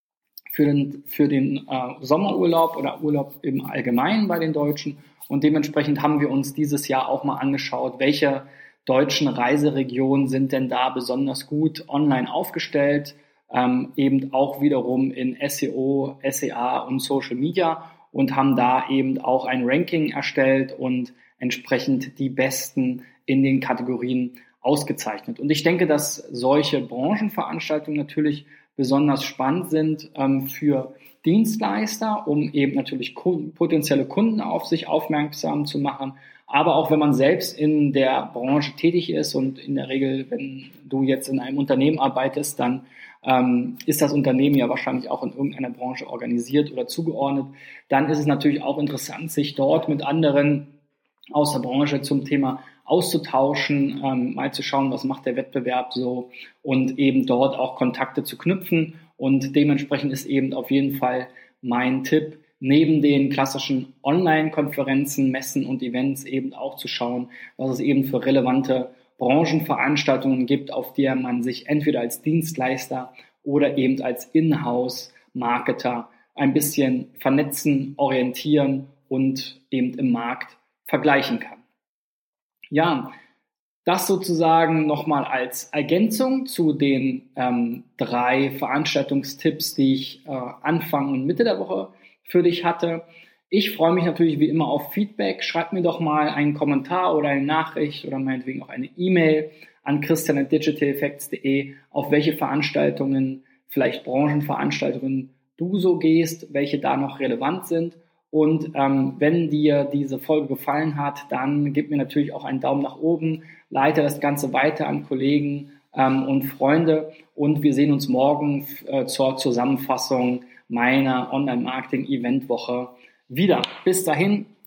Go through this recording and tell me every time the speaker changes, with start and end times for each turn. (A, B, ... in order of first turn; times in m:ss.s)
0:00.5-0:50.7 A
0:51.3-1:21.6 A
1:22.7-1:23.1 A
1:23.8-2:04.5 A